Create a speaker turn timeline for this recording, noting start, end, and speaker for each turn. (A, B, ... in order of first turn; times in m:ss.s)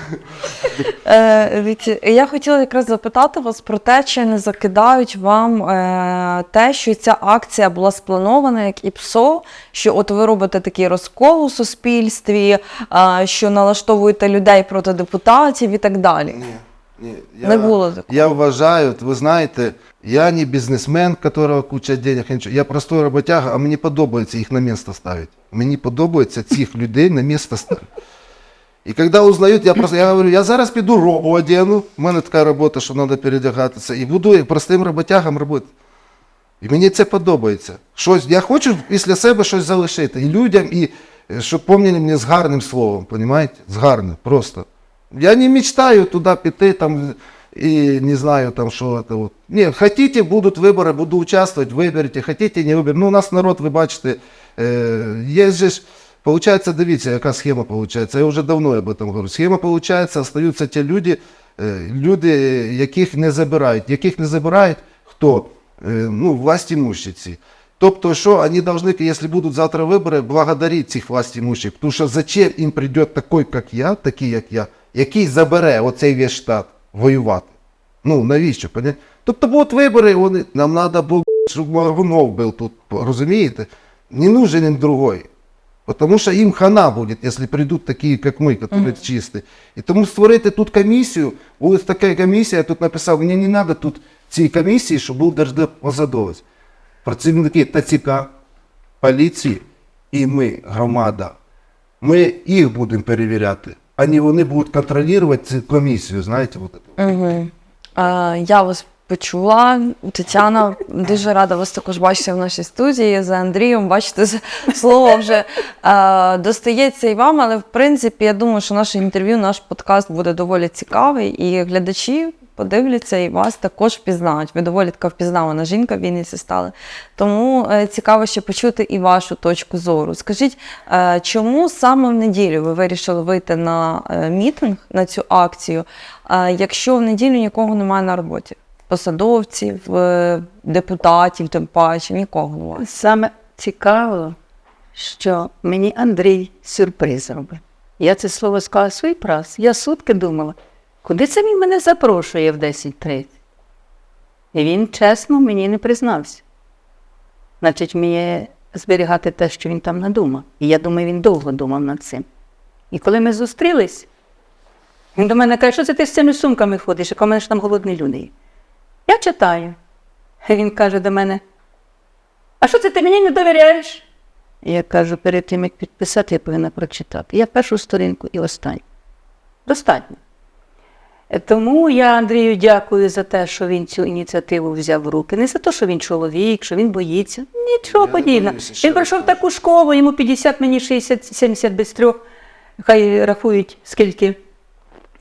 0:00.8-0:16.4 A
0:16.3-0:27.9 B
0:17.4-0:18.3 A
0:28.8-0:35.7 B
0:36.6-1:17.5 B
1:18.0-1:25.3 B
1:25.8-1:36.4 B
1:37.0-1:38.3 B
1:39.0-1:41.4 B
1:42.0-1:47.0 B
1:47.0-2:22.8 A
2:22.8-2:24.4 C
2:24.9-2:33.3 C
2:34.5-2:36.4 C
2:37.6-2:42.2 C
2:42.9-2:44.1 C
2:45.1-2:48.3 C
2:49.1-2:49.8 C
2:50.4-2:51.4 C
2:52.6-2:54.0 C
2:54.6-2:58.8 C
2:59.6-3:00.2 C
3:01.3-3:12.2 C
3:07.9-3:09.4 B
3:12.8-3:14.4 C